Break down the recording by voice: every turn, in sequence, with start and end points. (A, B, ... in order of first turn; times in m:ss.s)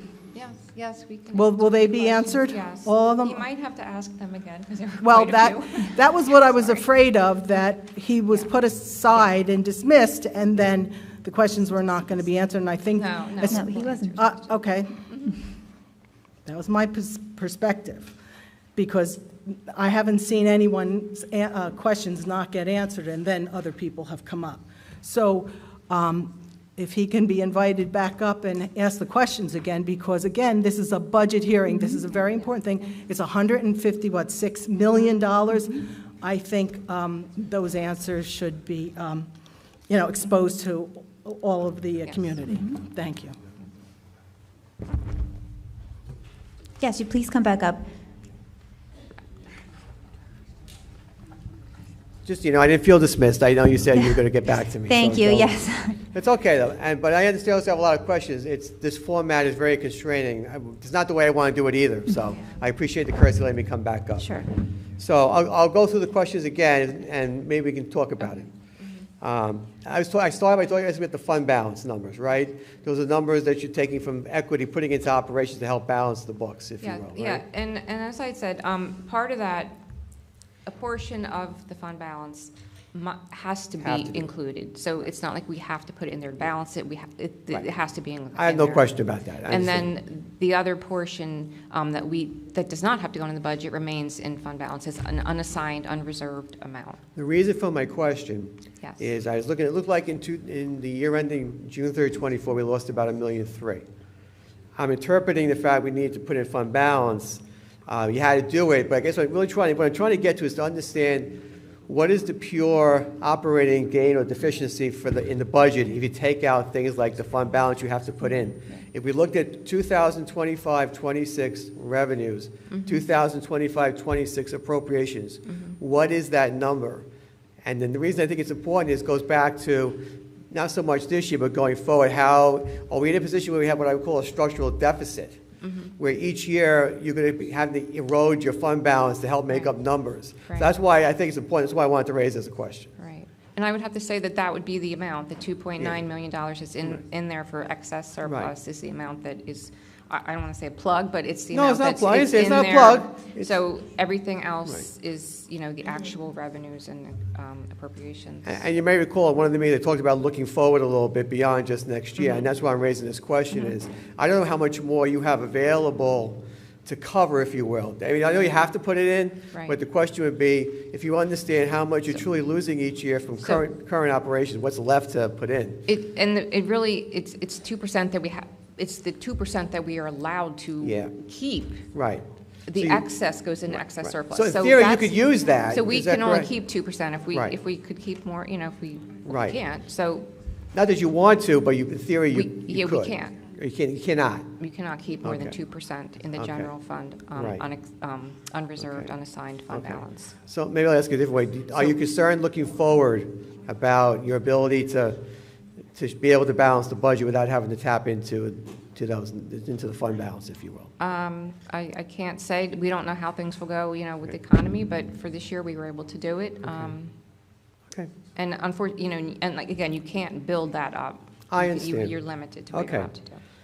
0:00.3-0:06.8 A
0:01.3-0:03.4 B
0:05.0-0:15.0 B
0:13.0-0:14.5 A
0:13.5-0:14.1 C
0:16.4-0:18.2 B
0:18.8-0:39.3 B
0:39.9-0:43.4 B
0:46.8-0:47.8 C
0:52.2-1:04.4 D
0:54.9-0:56.0 C
1:04.2-1:04.5 C
1:05.0-1:08.5 D
1:09.2-1:17.4 D
1:16.8-1:19.8 A
1:20.7-1:28.9 A
1:23.8-1:24.3 D
1:28.4-1:29.9 D
1:29.5-1:37.0 A
1:37.2-1:43.8 D
1:44.8-2:07.1 D
2:02.7-2:03.0 A
2:07.6-2:15.4 D
2:15.6-2:15.9 A
2:16.0-2:22.9 D
2:23.0-2:38.6 A
2:28.2-2:28.5 D
2:31.5-2:33.5 D
2:38.4-2:55.9 D
2:42.2-2:42.4 A
2:55.9-3:01.9 A
3:00.8-3:01.1 D
3:01.9-3:03.0 D
3:02.7-3:10.3 A
3:03.7-3:06.5 D
3:09.2-3:09.6 D
3:10.7-3:14.5 D
3:12.3-3:13.4 A
3:14.6-3:20.3 A
3:15.2-3:15.6 D
3:16.4-3:16.7 D
3:17.3-3:17.6 D
3:18.8-3:19.1 D
3:19.7-3:25.2 D
3:25.9-3:30.9 D
3:31.0-3:37.1 A
3:36.6-3:36.9 D
3:38.4-3:43.4 A
3:41.5-3:42.2 D
3:42.7-3:43.1 D